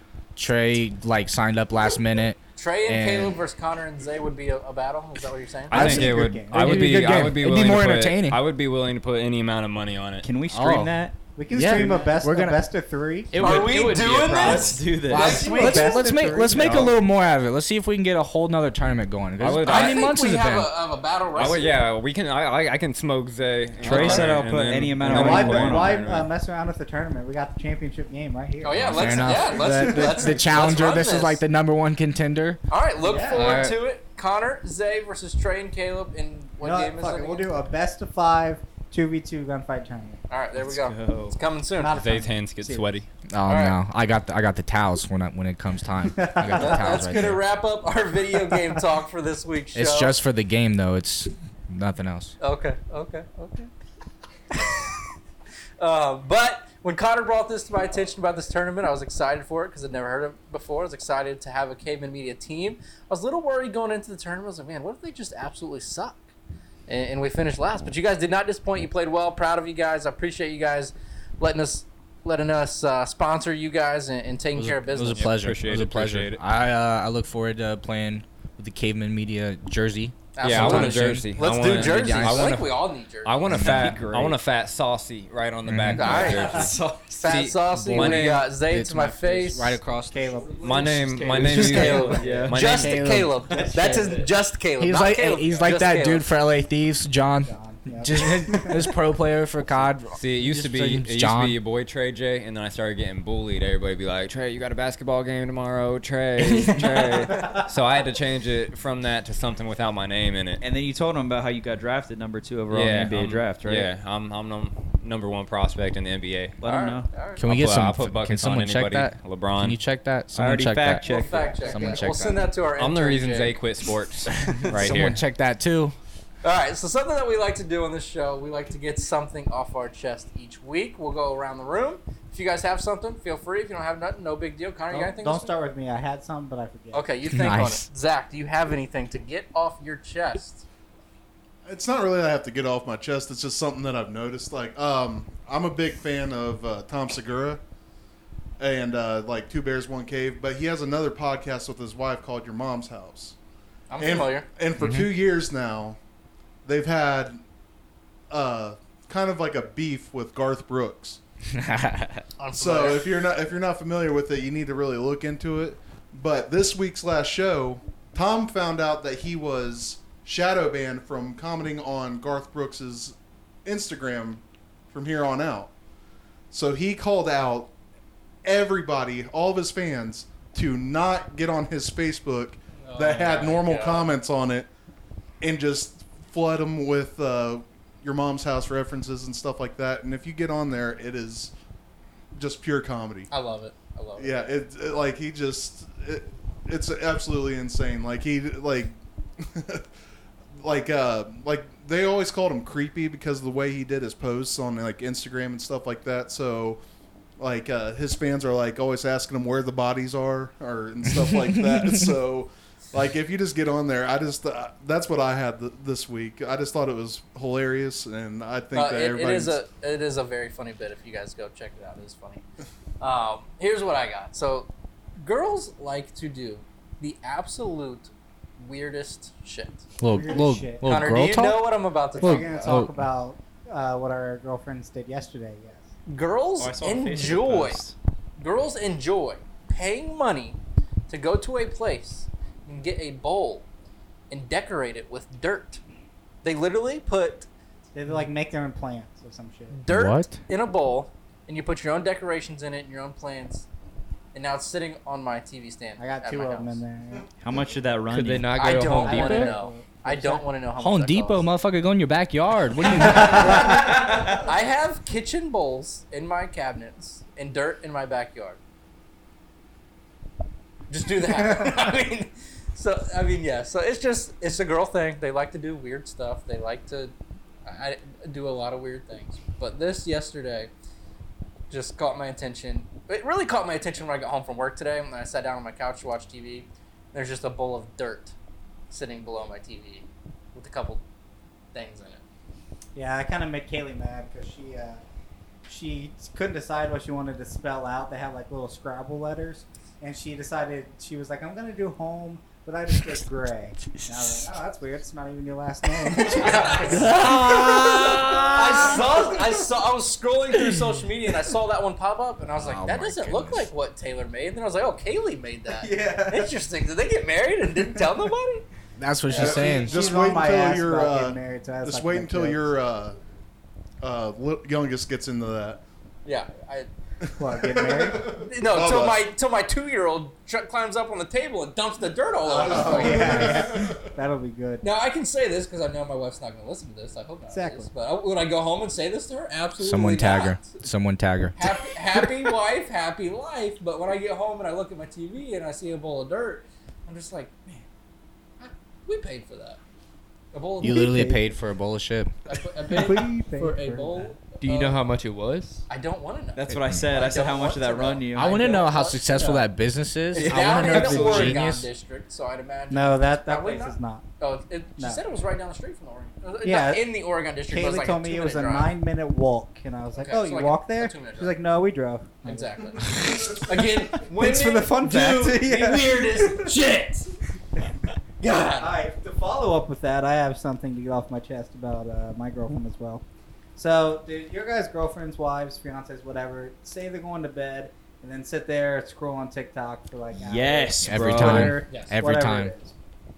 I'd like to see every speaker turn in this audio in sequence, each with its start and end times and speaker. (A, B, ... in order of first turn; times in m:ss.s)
0:00.4-0:03.4 A
0:02.6-0:05.8 B
0:05.7-0:07.2 C
0:05.7-0:10.3 D
0:05.7-0:08.4 A
0:10.2-0:11.2 E
0:10.5-0:10.9 A
0:11.3-0:13.7 C
0:11.5-0:12.6 A
0:11.7-0:12.1 E
0:13.3-0:15.6 E
0:13.4-0:16.0 B
0:15.1-0:17.0 C
0:15.3-0:20.7 A
0:19.4-0:20.1 D
0:19.6-0:21.8 B
0:21.3-0:26.3 D
0:23.8-0:26.2 E
0:24.0-0:24.3 C
0:25.0-0:30.4 C
0:28.6-0:31.4 B
0:28.8-0:32.6 A
0:32.7-0:37.5 B
0:33.0-0:33.7 C
0:33.3-0:33.7 D
0:36.6-0:40.2 C
0:40.3-0:42.0 B
0:40.6-0:41.4 E
0:41.8-0:43.0 C
0:41.9-0:43.1 D
0:43.3-0:47.4 A
0:43.5-0:43.8 B
0:46.2-0:47.0 C
0:46.5-0:50.2 B
0:49.7-0:52.3 A
0:52.4-0:53.7 B
0:54.5-0:55.0 B
0:55.8-1:06.3 B
1:06.9-1:15.3 B
1:14.5-1:22.6 A
1:15.1-1:16.4 D
1:20.4-1:23.4 B
1:20.4-1:28.4 D
1:23.5-1:24.0 A
1:23.5-1:24.4 E
1:25.6-1:26.4 A
1:26.0-1:29.8 B
1:26.6-1:27.0 E
1:27.8-1:30.4 A
1:30.1-1:32.3 C
1:30.6-1:33.3 D
1:31.0-1:32.8 E
1:31.3-1:32.1 F
1:31.4-1:36.3 B
1:32.8-1:33.3 A
1:33.5-1:34.3 E
1:34.8-1:41.6 A
1:37.4-1:38.9 C
1:40.2-1:50.6 D
1:46.4-1:47.1 A
1:47.3-1:47.6 C
1:50.6-1:53.9 E
1:52.7-1:56.6 D
1:56.6-1:57.1 E
1:56.6-1:57.4 B
1:57.4-2:01.1 A
1:57.4-1:59.8 D
2:00.3-2:02.1 E
2:01.0-2:03.6 B
2:01.6-2:02.4 A
2:02.8-2:05.2 D
2:04.5-2:06.0 A
2:06.4-2:15.5 B
2:14.9-2:17.0 C
2:16.9-2:20.6 B
2:17.2-2:17.8 A
2:21.6-2:27.6 G
2:28.6-2:33.4 G
2:33.9-2:34.5 B
2:34.0-2:36.0 G
2:34.8-2:35.1 A
2:36.6-2:37.4 G
2:38.3-2:41.2 G
2:41.5-2:42.2 A
2:42.4-2:43.2 B
2:42.5-2:55.7 G
2:56.5-2:57.7 G
2:58.4-3:04.7 G
3:02.8-3:04.1 B
3:05.4-3:11.5 G
3:12.3-3:13.3 G
3:13.3-3:14.5 B
3:14.2-3:19.9 G
3:20.6-3:26.8 G
3:27.4-3:39.6 G
3:31.1-3:32.1 A
3:38.7-3:42.4 B
3:43.0-3:49.9 B
3:50.0-3:51.6 A
3:50.1-3:50.9 C
3:50.8-3:52.7 B
3:52.2-3:55.9 C
3:52.2-3:53.0 A
3:56.1-3:57.8 B
3:56.6-3:57.9 E
3:58.4-4:00.6 B
4:01.1-4:03.6 B
4:04.3-4:05.8 B
4:06.4-4:07.5 B
4:07.9-4:09.8 C
4:09.8-4:13.6 B
4:09.9-4:10.4 A
4:14.3-4:16.8 B
4:16.0-4:17.3 C
4:17.4-4:18.9 E
4:18.1-4:19.5 F
4:18.5-4:21.5 B
4:18.6-4:20.4 C
4:20.8-4:23.8 A
4:23.0-4:24.0 C
4:23.1-4:28.6 B
4:23.8-4:24.2 E
4:30.9-4:37.1 B
4:31.4-4:31.7 C
4:37.6-4:40.7 B
4:41.7-4:48.3 B
4:48.9-4:51.0 B
4:51.7-4:52.2 B
4:52.9-4:55.0 C
4:55.7-5:09.5 C
5:04.0-5:04.2 E
5:06.2-5:18.6 B
5:06.9-5:09.0 E
5:12.6-5:13.7 A
5:15.8-5:16.5 C
5:19.0-5:20.0 A
5:19.3-5:19.8 B
5:19.3-5:22.7 C
5:19.3-5:23.2 G
5:24.0-5:25.8 G
5:26.2-5:26.9 B
5:27.4-5:28.3 C
5:27.4-5:29.2 G
5:28.3-5:33.6 B
5:32.5-5:34.8 C
5:32.6-5:34.1 G
5:34.8-5:40.8 B
5:37.5-5:37.9 C
5:39.8-5:41.7 A
5:41.6-5:47.8 B
5:48.6-5:49.8 B
5:50.5-5:51.2 B
5:50.8-5:52.3 A
5:50.8-5:51.4 C
5:52.5-5:55.0 B
5:52.9-5:54.3 C
5:54.6-5:55.8 F
5:55.9-5:59.6 B
5:56.5-5:58.8 E
5:58.3-6:01.9 A
6:00.3-6:08.9 B
6:00.4-6:01.6 E
6:02.9-6:04.2 C
6:06.6-6:07.1 C
6:07.7-6:13.2 C
6:10.2-6:11.5 B
6:12.4-6:17.3 B
6:13.1-6:13.7 G
6:14.2-6:16.7 C
6:18.4-6:18.9 B
6:18.7-6:23.2 C
6:23.8-6:32.9 C
6:30.3-6:31.8 E
6:31.0-6:32.7 A
6:31.9-6:32.1 B